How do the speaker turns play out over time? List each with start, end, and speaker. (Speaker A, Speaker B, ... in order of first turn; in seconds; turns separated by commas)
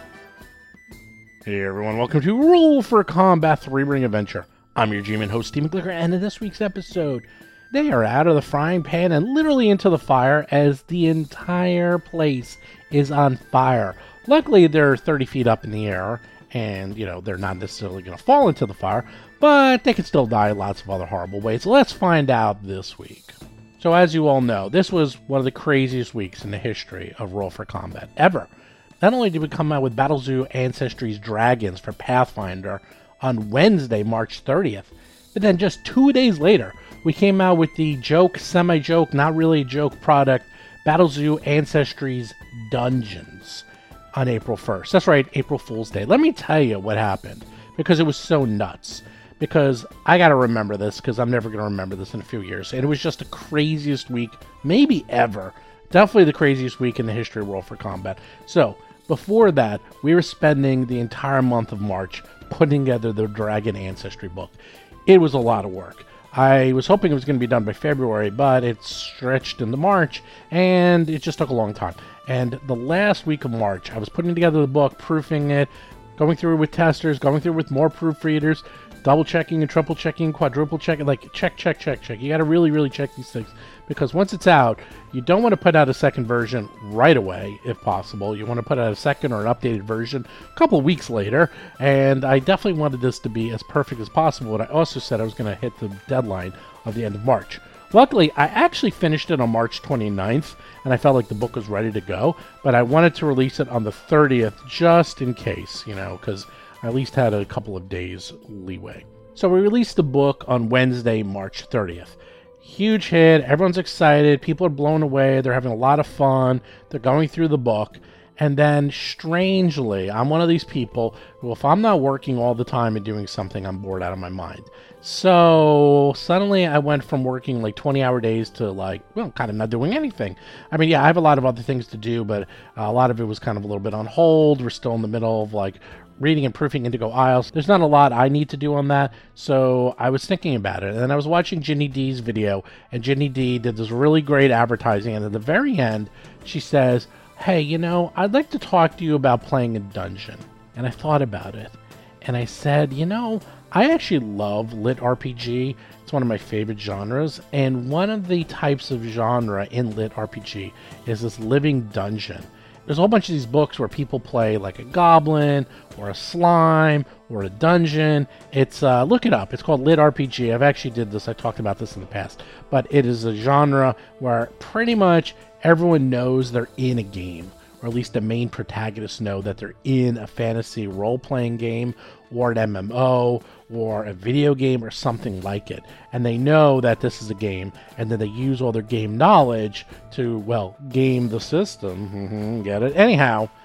Speaker A: 1.4-28.5, Speaker A: 29.0-64.5, Speaker A: 65.1-193.5